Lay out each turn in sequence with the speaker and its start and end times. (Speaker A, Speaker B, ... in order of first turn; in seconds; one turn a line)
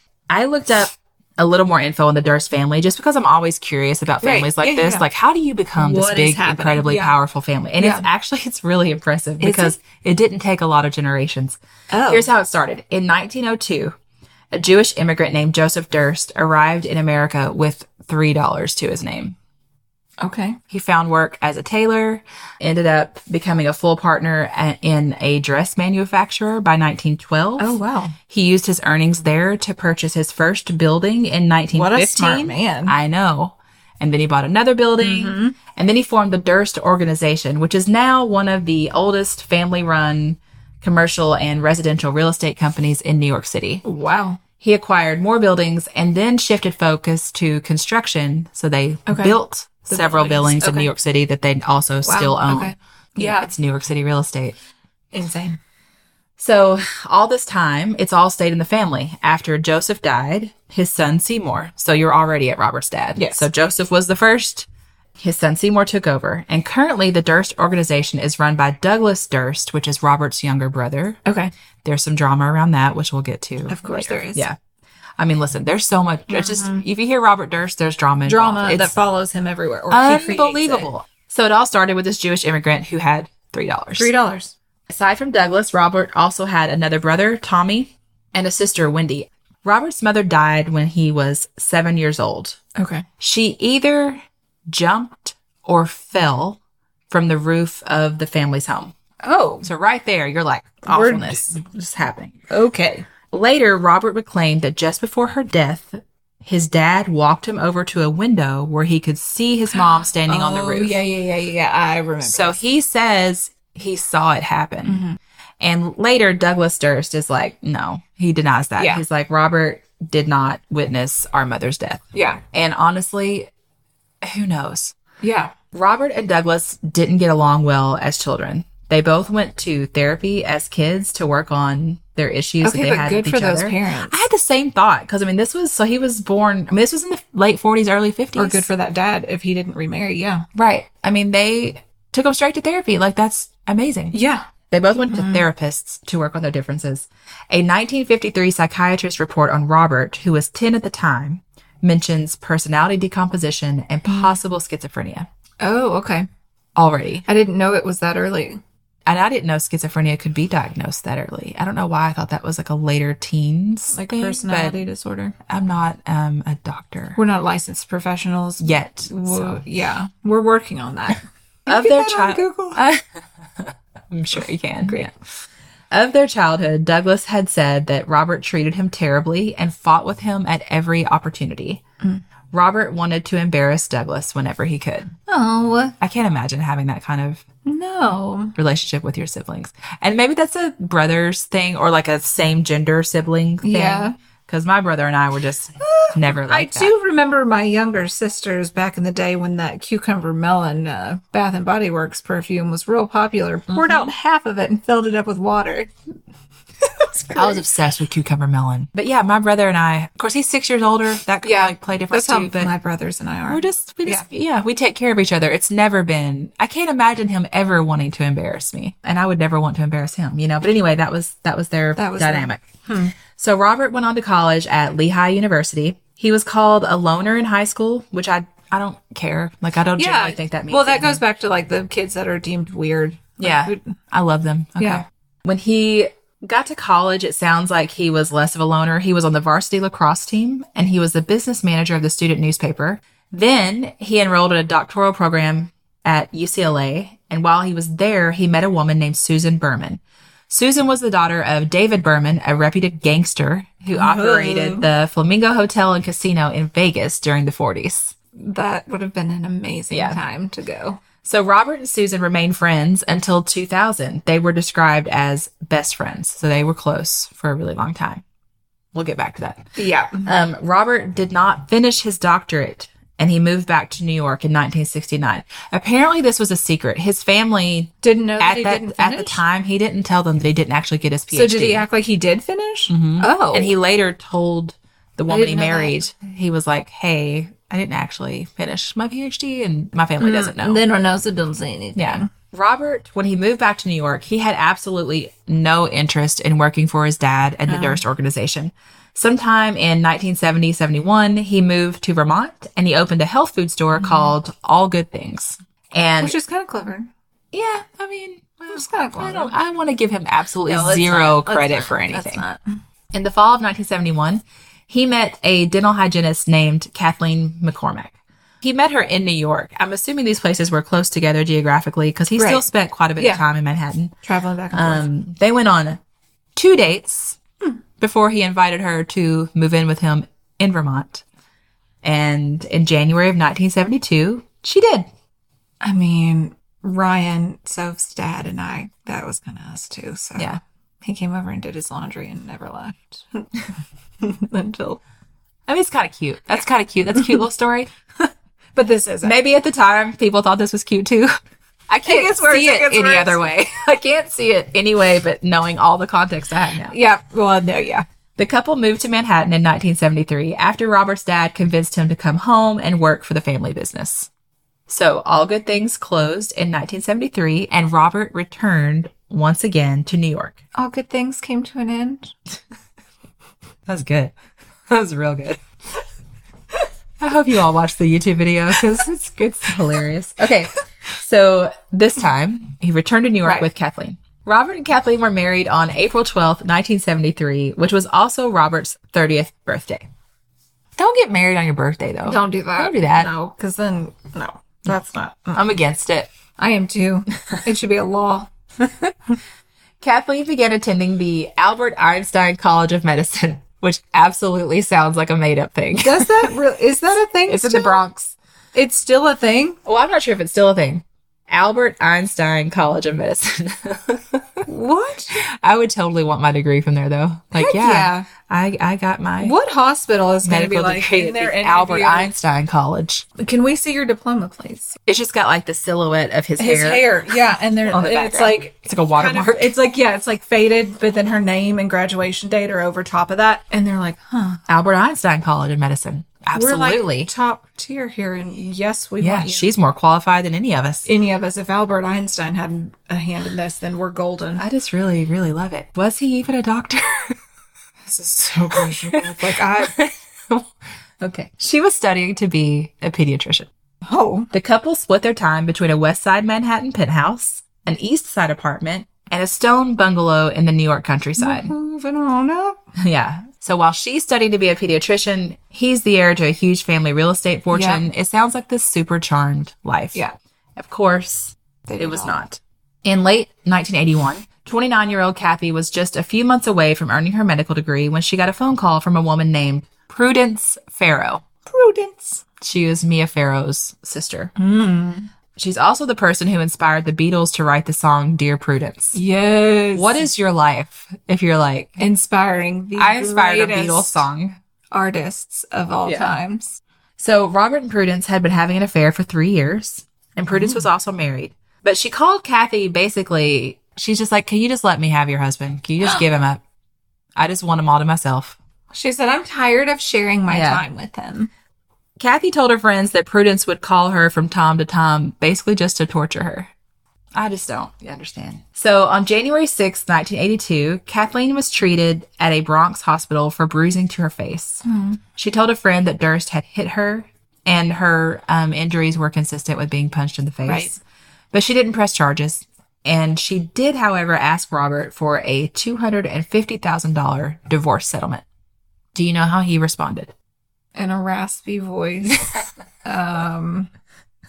Speaker A: 0.3-13.9
Speaker B: 4.2-5.0
Speaker B: 5.8-7.2
Speaker B: 7.8-8.1
Speaker B: 9.4-9.8
Speaker B: 11.9-12.3
Speaker A: 14.5-19.4
Speaker B: 20.2-20.6
Speaker A: 20.7-43.8
Speaker B: 27.6-28.1
Speaker B: 31.7-32.9
Speaker B: 35.0-35.6
Speaker B: 43.8-44.4
Speaker A: 44.6-54.5
Speaker B: 49.1-49.4
Speaker B: 49.9-50.9
Speaker B: 52.0-53.5
Speaker B: 55.1-55.6
Speaker A: 56.4-64.7
Speaker B: 63.1-63.5
Speaker A: 65.2-71.2
Speaker B: 71.2-71.5
Speaker A: 71.8-74.5
Speaker B: 73.7-74.5
Speaker A: 75.2-78.9
Speaker B: 76.3-76.8
Speaker B: 78.2-80.9
Speaker A: 79.9-84.1
Speaker B: 84.0-84.5
Speaker A: 84.9-92.6
Speaker B: 92.7-93.0
Speaker A: 93.2-98.9
Speaker B: 99.2-99.7
Speaker A: 99.6-102.3
Speaker B: 100.8-101.5
Speaker B: 102.5-103.0
Speaker A: 103.3-111.0
Speaker B: 109.7-112.6
Speaker A: 112.2-115.0
Speaker B: 114.8-115.2
Speaker A: 115.6-123.5
Speaker B: 118.8-119.0
Speaker B: 122.1-122.4
Speaker A: 124.2-125.0
Speaker B: 125.2-125.5
Speaker A: 125.7-138.7
Speaker B: 132.6-134.2
Speaker B: 138.3-140.4
Speaker A: 140.5-144.2
Speaker B: 144.1-144.5
Speaker A: 144.7-155.3
Speaker B: 145.1-145.4
Speaker B: 154.1-154.4
Speaker B: 155.6-156.3
Speaker A: 156.8-157.2
Speaker B: 157.2-158.6
Speaker A: 159.1-164.9
Speaker B: 163.9-165.3
Speaker A: 165.5-167.2
Speaker B: 167.2-172.8
Speaker A: 168.6-169.6
Speaker A: 171.7-173.0
Speaker A: 173.6-175.1
Speaker A: 175.9-181.8
Speaker A: 182.5-185.1
Speaker B: 185.2-185.9
Speaker A: 186.0-187.4
Speaker B: 187.6-188.6
Speaker A: 188.6-196.9
Speaker B: 193.6-194.1
Speaker B: 195.8-205.9
Speaker A: 203.7-204.1
Speaker B: 206.8-207.6
Speaker A: 207.3-212.7
Speaker B: 211.4-214.2
Speaker A: 213.5-222.6
Speaker B: 222.0-223.2
Speaker A: 223.3-231.2
Speaker B: 230.0-234.0
Speaker A: 233.4-258.1
Speaker B: 234.8-235.0
Speaker B: 253.9-254.9
Speaker B: 258.4-261.0
Speaker A: 259.9-260.2
Speaker A: 261.2-268.2
Speaker A: 268.9-269.6
Speaker B: 269.8-270.3
Speaker A: 270.2-281.8
Speaker B: 278.0-279.4
Speaker B: 281.3-283.7
Speaker A: 282.9-290.8
Speaker B: 285.3-286.0
Speaker B: 290.2-292.3
Speaker A: 291.9-306.4
Speaker B: 297.7-298.0
Speaker B: 304.0-304.3
Speaker B: 306.2-307.1
Speaker A: 307.5-312.4
Speaker B: 308.7-309.5
Speaker B: 310.6-312.8
Speaker A: 313.1-324.1
Speaker B: 322.3-322.6
Speaker B: 323.2-323.4
Speaker B: 324.2-325.0
Speaker A: 324.7-326.0
Speaker A: 326.6-327.4
Speaker A: 328.0-331.2
Speaker A: 332.0-335.1
Speaker B: 335.8-343.6
Speaker B: 344.2-345.0
Speaker A: 345.7-347.9
Speaker B: 348.7-349.3
Speaker A: 349.2-351.3
Speaker A: 351.9-356.9
Speaker B: 352.0-353.5
Speaker B: 356.9-358.1
Speaker A: 358.4-364.3
Speaker A: 364.9-370.6
Speaker B: 370.7-372.3
Speaker A: 373.9-374.3
Speaker A: 374.9-375.6
Speaker A: 377.2-390.0
Speaker A: 391.0-393.3
Speaker B: 392.2-395.7
Speaker A: 395.5-396.3
Speaker B: 396.6-398.5
Speaker A: 400.0-406.5
Speaker B: 406.0-408.0
Speaker A: 407.5-408.3
Speaker B: 408.7-409.8
Speaker A: 409.8-414.6
Speaker B: 414.6-415.4
Speaker A: 415.4-419.6
Speaker B: 417.5-418.3
Speaker B: 419.4-422.3
Speaker A: 420.4-423.2
Speaker B: 423.4-424.9
Speaker A: 425.1-427.0
Speaker B: 426.6-434.6
Speaker A: 427.9-429.7
Speaker A: 434.7-437.3
Speaker B: 436.5-439.7
Speaker A: 439.2-441.1
Speaker B: 441.1-444.6
Speaker A: 444.6-447.4
Speaker B: 448.1-449.9
Speaker A: 448.2-450.7
Speaker A: 451.2-453.7
Speaker B: 454.1-454.5
Speaker A: 454.5-461.7
Speaker B: 461.4-462.8
Speaker A: 463.0-470.2
Speaker B: 467.7-468.1
Speaker A: 470.8-481.4
Speaker B: 471.9-472.4
Speaker B: 481.6-482.4
Speaker A: 482.6-484.5
Speaker B: 484.6-485.3
Speaker A: 485.6-489.2
Speaker B: 489.1-490.3
Speaker A: 489.9-492.0
Speaker B: 492.0-494.3
Speaker A: 492.9-494.6
Speaker B: 494.9-496.8
Speaker A: 496.0-496.4
Speaker A: 497.2-506.6
Speaker B: 500.5-500.8
Speaker A: 507.4-508.6
Speaker B: 508.9-511.5
Speaker A: 510.5-510.8
Speaker A: 512.2-516.7
Speaker A: 517.3-524.8
Speaker B: 524.8-525.2
Speaker A: 525.4-531.0
Speaker B: 530.6-530.9
Speaker A: 531.5-538.4
Speaker A: 539.1-540.3
Speaker B: 540.9-543.9